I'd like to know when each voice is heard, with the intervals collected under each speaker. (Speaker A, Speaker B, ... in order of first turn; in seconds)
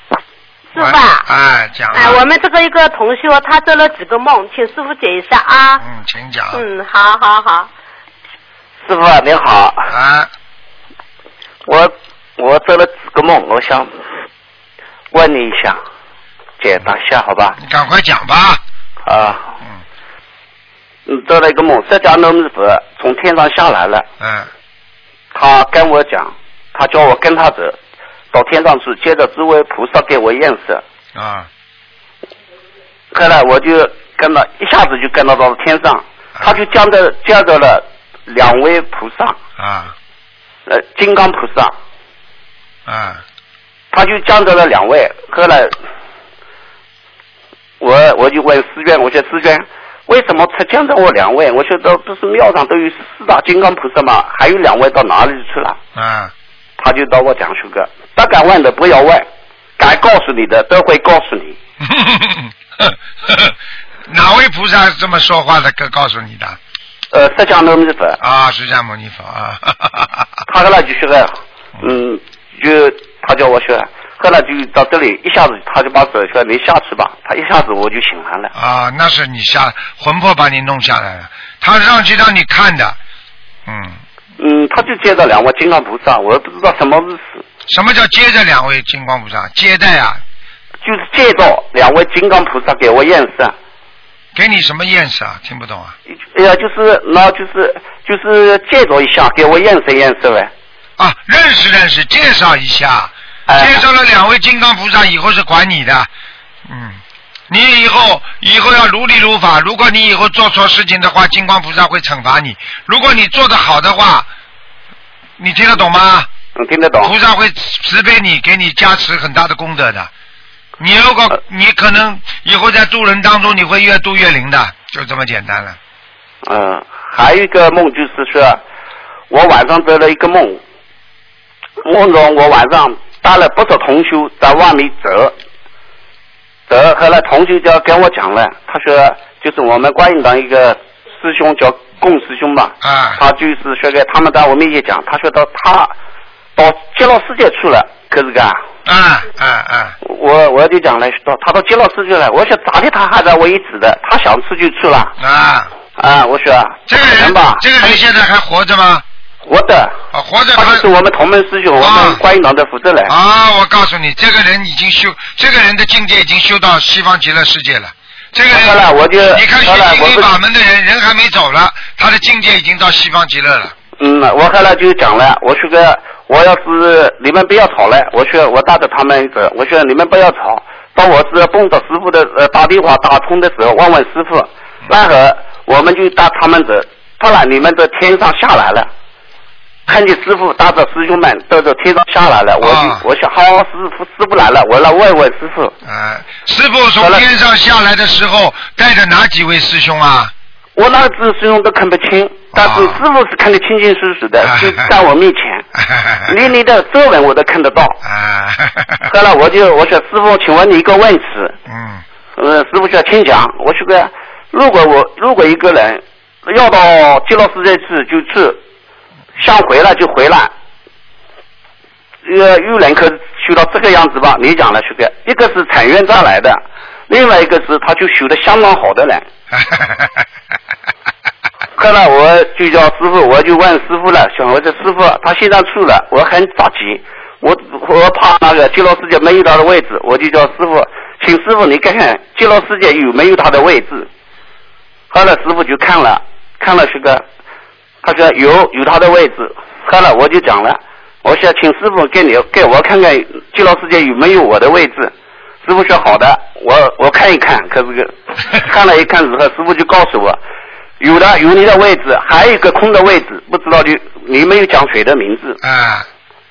Speaker A: 0.7-1.2, 1.9-5.8, 6.5-7.7
Speaker B: 0.8-2.2, 5.8-6.6, 9.9-10.3, 17.6-18.6, 24.2-24.5, 31.1-31.5, 39.6-40.0, 42.9-43.2, 56.0-56.3, 61.8-63.6, 64.1-66.6, 68.2-70.3, 78.5-83.0, 83.7-84.0, 87.7-90.2, 94.3-96.0, 101.0-106.1, 106.7-114.3, 115.4-116.3, 117.0-120.1, 120.8-125.8, 142.8-143.2, 148.8-149.9, 155.2-155.7, 156.9-159.0, 160.1-160.9, 161.8-162.2, 163.1-173.8, 192.6-193.1, 195.8-200.3, 202.5-203.0, 204.4-204.9, 205.8-206.4, 208.0-209.1, 211.7-212.0, 229.6-230.2, 265.6-266.1
Speaker C: 8.8-9.9, 11.7-13.9, 15.1-15.8, 16.6-17.6, 19.1-19.5, 21.1-24.1, 25.3-27.8, 28.3-30.8, 33.1-39.4, 40.7-41.7, 43.9-45.7, 47.8-55.8, 56.8-59.3, 59.8-61.6, 67.1-68.2, 70.5-78.5, 84.4-87.4, 90.8-93.5, 96.3-100.5, 103.5-103.8, 116.6-117.1, 126.5-128.6, 129.3-130.6, 131.8-135.3, 136.7-145.9, 146.6-148.6, 150.0-155.1, 156.0-158.0, 159.4-160.0, 160.6-163.1, 168.5-170.3, 174.0-188.9, 189.9-195.7, 200.8-205.7, 206.3-208.0, 209.1-211.6, 212.4-218.6, 219.4-220.5, 222.2-229.3, 231.8-244.1, 245.1-247.2, 248.0-255.1, 255.6-260.4, 261.0-265.6